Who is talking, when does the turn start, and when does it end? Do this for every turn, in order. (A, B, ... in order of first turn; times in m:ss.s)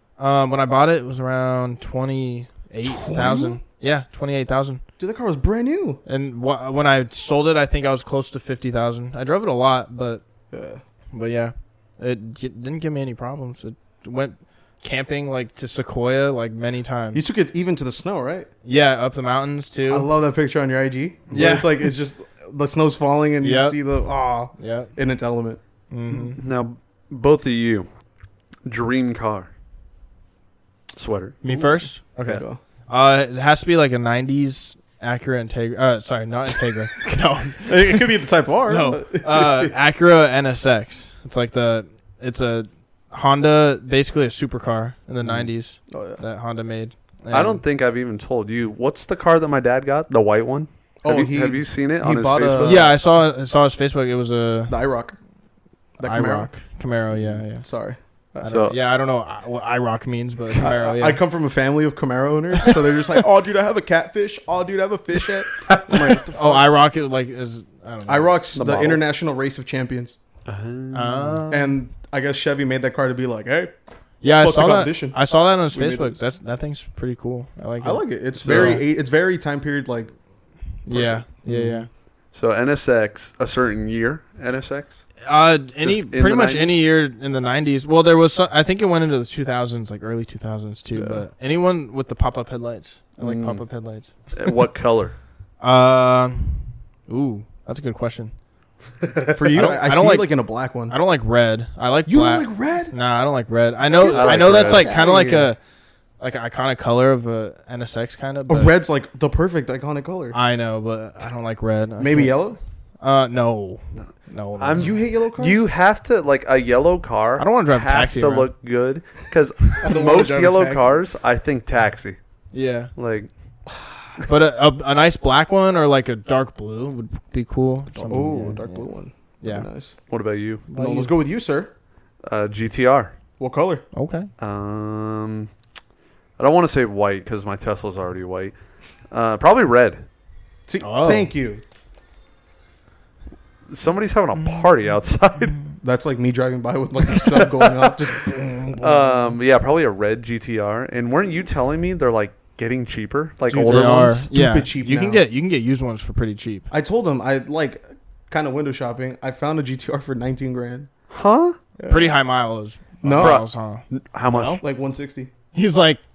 0:00.2-0:04.8 A
0:02.9-0:03.6 B
0:05.0-0:06.0 B
0:06.1-0:10.2 A
0:10.5-0:10.8 B
0:11.1-0:17.2 A
0:17.1-0:18.5 B
0:18.6-0:20.1 A
0:19.9-0:25.6 B
0:21.3-0:21.9 A
0:23.4-0:23.8 A
0:24.6-0:24.9 A
0:25.9-0:26.4 A
0:26.1-0:27.9 C
0:28.7-0:29.5 C
0:31.0-0:31.4 C
0:31.4-0:38.1 A
0:32.3-0:32.6 B
0:37.7-0:39.7 B
0:38.7-0:47.6 A
0:45.2-0:45.5 C
0:45.9-0:46.2 B
0:47.3-0:52.9 C
0:51.0-0:52.9 B
0:52.6-0:54.8 A
0:54.7-0:55.2 B
0:56.0-0:56.5 B
0:56.0-0:57.6 A
0:57.6-0:58.5 B
0:58.4-1:01.2 A
0:58.5-0:58.8 C
1:00.6-1:06.7 B
1:02.6-1:02.8 A
1:05.6-1:06.2 C
1:06.2-1:08.3 A
1:08.1-1:10.2 B
1:08.5-1:09.0 C
1:10.5-1:11.4 C
1:10.9-1:11.8 A
1:11.5-1:13.7 B
1:14.2-1:18.8 A
1:14.2-1:15.2 B
1:15.7-1:16.2 B
1:17.8-1:20.1 B
1:18.4-1:18.8 C
1:20.9-1:21.9 A
1:20.9-1:21.7 B
1:21.0-1:21.8 C
1:22.3-1:25.0 C
1:25.2-1:34.1 A
1:25.8-1:26.8 C
1:30.9-1:31.2 C
1:33.2-1:33.6 C
1:34.4-1:35.2 C
1:35.6-1:38.3 A
1:39.0-1:39.4 C
1:39.3-1:41.0 B
1:39.5-1:40.3 A
1:40.9-1:45.6 A
1:42.1-1:43.0 B
1:43.9-1:45.5 B
1:44.0-1:44.9 C
1:46.2-1:48.8 A
1:48.5-1:50.4 B
1:50.3-1:55.0 A
1:52.0-1:52.6 B
1:54.0-2:02.2 C
1:54.8-1:55.6 B
1:57.4-1:58.5 A
1:59.8-2:01.0 B
2:02.5-2:02.9 A
2:03.0-2:03.3 C
2:04.2-2:08.9 A
2:08.0-2:10.0 B
2:09.4-2:09.7 A
2:10.1-2:10.6 C
2:10.7-2:11.1 A
2:10.7-2:11.7 B
2:12.2-2:13.1 C
2:13.4-2:13.8 B
2:13.9-2:14.3 A
2:14.4-2:15.5 C
2:16.4-2:18.6 C
2:19.1-2:20.1 C
2:20.7-2:21.6 B
2:20.8-2:21.3 A
2:23.7-2:25.6 C
2:25.8-2:29.4 B
2:27.2-2:27.9 C
2:28.8-2:34.3 C
2:33.5-2:35.2 B
2:33.7-2:36.7 A
2:36.7-2:40.9 B
2:41.1-2:41.6 C
2:41.8-2:42.1 B
2:41.9-2:44.6 A
2:43.0-2:43.4 B
2:43.2-2:44.6 C
2:44.6-2:45.3 B
2:45.5-2:46.0 A